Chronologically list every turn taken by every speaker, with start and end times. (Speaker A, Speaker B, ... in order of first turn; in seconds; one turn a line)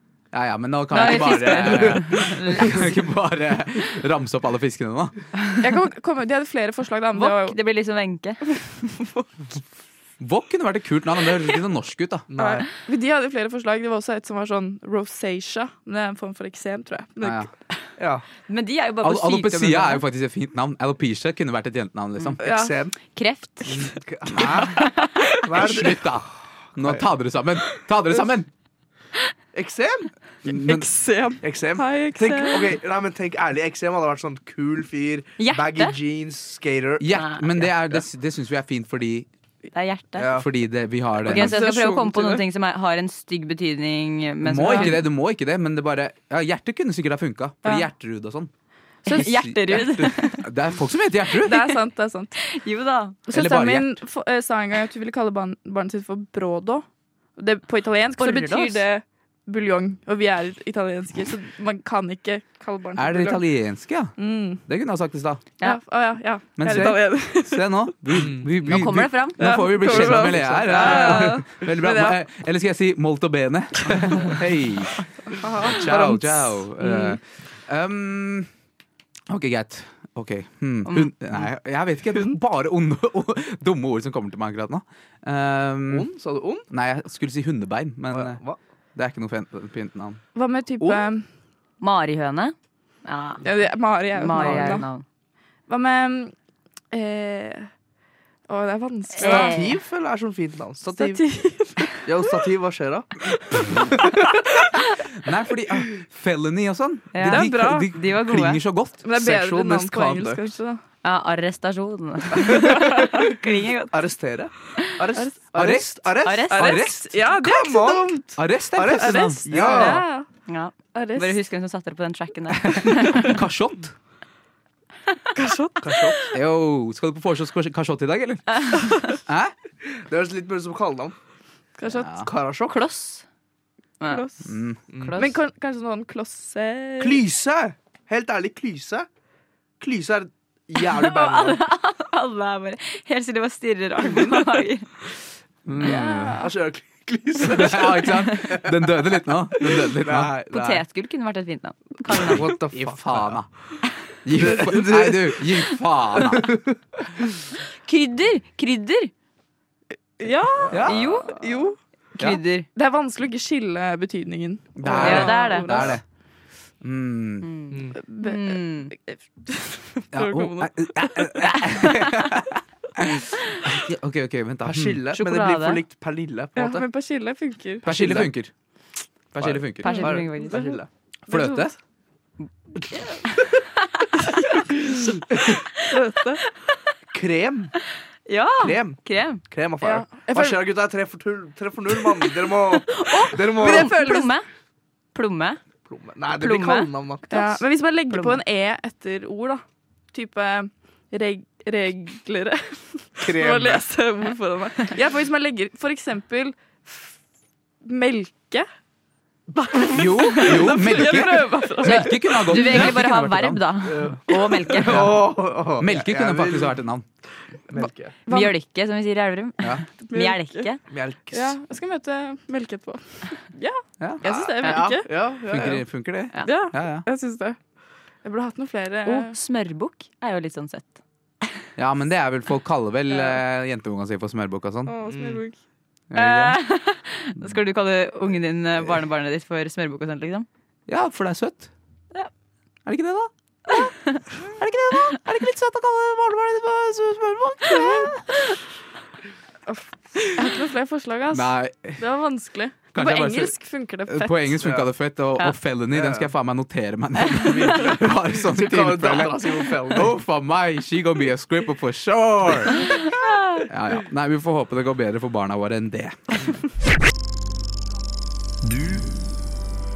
Speaker A: 0.3-5.2
Speaker B: 0.9-2.9
Speaker C: 5.6-7.6
Speaker B: 7.1-8.6
Speaker C: 8.6-9.6
Speaker A: 10.2-12.3
Speaker D: 12.3-12.7
Speaker C: 12.4-17.5
Speaker A: 17.2-17.5
Speaker D: 18.0-18.3
Speaker B: 18.5-20.0
Speaker A: 19.0-22.4
Speaker D: 22.4-23.0
Speaker C: 22.4-22.8
Speaker B: 23.1-23.9
Speaker D: 23.7-24.9
Speaker B: 24.6-24.9
Speaker D: 25.4-26.2
Speaker A: 25.6-28.5
Speaker D: 26.8-27.1
Speaker D: 29.5-30.1
Speaker A: 30.4-30.9
Speaker C: 30.5-32.7
Speaker D: 31.4-37.0
Speaker B: 35.4-36.0
Speaker A: 37.0-39.3
Speaker B: 37.1-37.7
Speaker B: 39.7-40.4
Speaker D: 40.2-40.5
Speaker A: 40.3-41.6
Speaker B: 41.2-45.0
Speaker C: 41.3-42.5
Speaker A: 44.4-48.5
Speaker C: 44.6-45.0
Speaker C: 47.6-47.9
Speaker C: 49.0-49.9
Speaker B: 49.1-50.5
Speaker A: 49.1-51.6
Speaker C: 51.4-52.4
Speaker B: 52.4-53.2
Speaker A: 53.3-54.0
Speaker C: 53.3-63.5
Speaker B: 58.2-58.9
Speaker A: 63.0-65.4
Speaker C: 64.2-64.6
Speaker C: 65.6-67.8
Speaker A: 66.6-78.5
Speaker D: 68.2-68.5
Speaker B: 68.6-70.2
Speaker C: 69.4-72.2
Speaker D: 70.1-70.9
Speaker B: 70.8-71.2
Speaker C: 75.4-77.1
Speaker A: 79.3-86.1
Speaker D: 85.9-86.7
Speaker A: 86.7-88.4
Speaker D: 88.1-88.6
Speaker A: 89.0-90.2
Speaker C: 90.3-91.2
Speaker B: 91.8-93.5
Speaker C: 93.4-94.9
Speaker B: 94.1-95.0
Speaker D: 94.4-94.8
Speaker C: 95.7-96.3
Speaker C: 96.9-97.7
Speaker C: 98.5-99.7
Speaker B: 99.2-99.7
Speaker D: 99.2-101.2
Speaker C: 101.0-102.0
Speaker D: 102.0-104.2
Speaker C: 103.6-104.0
Speaker A: 105.2-110.0
Speaker B: 107.1-108.6
Speaker C: 107.2-107.9
Speaker C: 109.0-110.8
Speaker D: 109.2-110.4
Speaker B: 111.0-114.0
Speaker D: 112.5-112.9
Speaker D: 113.9-120.1
Speaker A: 115.5-117.1
Speaker B: 116.2-116.9
Speaker C: 116.5-120.3
Speaker A: 118.4-119.5
Speaker B: 119.5-123.4
Speaker C: 121.0-121.4
Speaker A: 123.2-123.9
Speaker C: 125.3-126.3
Speaker D: 125.8-126.3
Speaker A: 126.3-129.5
Speaker D: 129.8-131.2
Speaker C: 131.8-132.1
Speaker A: 131.9-132.3
Speaker D: 132.2-132.8
Speaker B: 132.7-133.2
Speaker B: 134.0-134.3
Speaker C: 134.1-134.4
Speaker A: 134.4-134.8
Speaker D: 134.9-135.2
Speaker B: 134.9-135.4
Speaker C: 135.2-137.2
Speaker D: 137.0-139.1
Speaker D: 139.8-141.6
Speaker B: 140.8-144.9
Speaker D: 144.0-144.4
Speaker A: 145.7-146.4
Speaker C: 145.8-146.5
Speaker D: 146.4-148.7
Speaker A: 147.4-150.3
Speaker D: 149.6-150.8
Speaker B: 150.5-152.5
Speaker D: 152.1-153.4
Speaker A: 152.7-153.5
Speaker A: 154.2-156.5
Speaker D: 154.3-155.4
Speaker D: 156.2-157.0
Speaker B: 157.6-159.1
Speaker C: 160.2-161.8
Speaker A: 160.7-161.0
Speaker B: 160.8-161.5
Speaker B: 162.2-162.7
Speaker C: 162.8-166.0
Speaker A: 164.8-166.0
Speaker B: 165.0-165.9
Speaker A: 166.8-167.5
Speaker B: 167.4-168.9
Speaker C: 168.1-171.8
Speaker A: 170.1-175.0
Speaker D: 174.6-176.9
Speaker B: 175.1-175.8
Speaker C: 176.6-177.9
Speaker D: 177.8-178.3
Speaker A: 177.9-178.5
Speaker A: 179.3-179.9
Speaker D: 179.3-180.9
Speaker C: 179.8-180.8
Speaker B: 179.8-180.8
Speaker A: 181.3-181.7
Speaker C: 181.3-181.7
Speaker C: 182.9-183.2
Speaker C: 184.2-185.2
Speaker D: 185.3-185.6
Speaker C: 185.8-186.4
Speaker D: 187.1-187.7
Speaker B: 188.3-189.4
Speaker D: 188.6-194.0
Speaker C: 189.8-190.7
Speaker C: 192.9-194.3
Speaker B: 193.0-194.5
Speaker B: 195.1-195.6
Speaker D: 195.9-197.6
Speaker B: 196.4-196.9
Speaker C: 197.3-207.1
Speaker B: 198.1-198.4
Speaker D: 203.2-203.9
Speaker C: 207.8-208.7
Speaker C: 209.5-212.9
Speaker A: 209.9-213.6
Speaker B: 211.8-215.2
Speaker D: 213.8-216.8
Speaker C: 214.3-214.6
Speaker A: 215.8-217.0
Speaker D: 217.7-218.2
Speaker C: 217.7-218.5
Speaker B: 218.3-220.8
Speaker C: 220.0-220.7
Speaker D: 220.9-221.6
Speaker C: 221.3-225.1
Speaker D: 224.2-225.8
Speaker A: 225.5-227.1
Speaker C: 226.4-227.6
Speaker C: 228.2-229.3
Speaker B: 229.1-231.0
Speaker A: 231.8-234.9
Speaker C: 234.9-235.6
Speaker D: 235.1-235.4
Speaker A: 236.1-236.6
Speaker B: 236.1-240.5
Speaker A: 240.9-241.7
Speaker A: 242.9-243.9
Speaker A: 244.5-248.3
Speaker C: 249.7-254.6
Speaker A: 251.3-252.0
Speaker A: 252.9-263.1
Speaker D: 254.6-254.9
Speaker D: 255.9-256.3
Speaker D: 257.4-260.1
Speaker B: 263.1-263.6
Speaker A: 263.6-266.3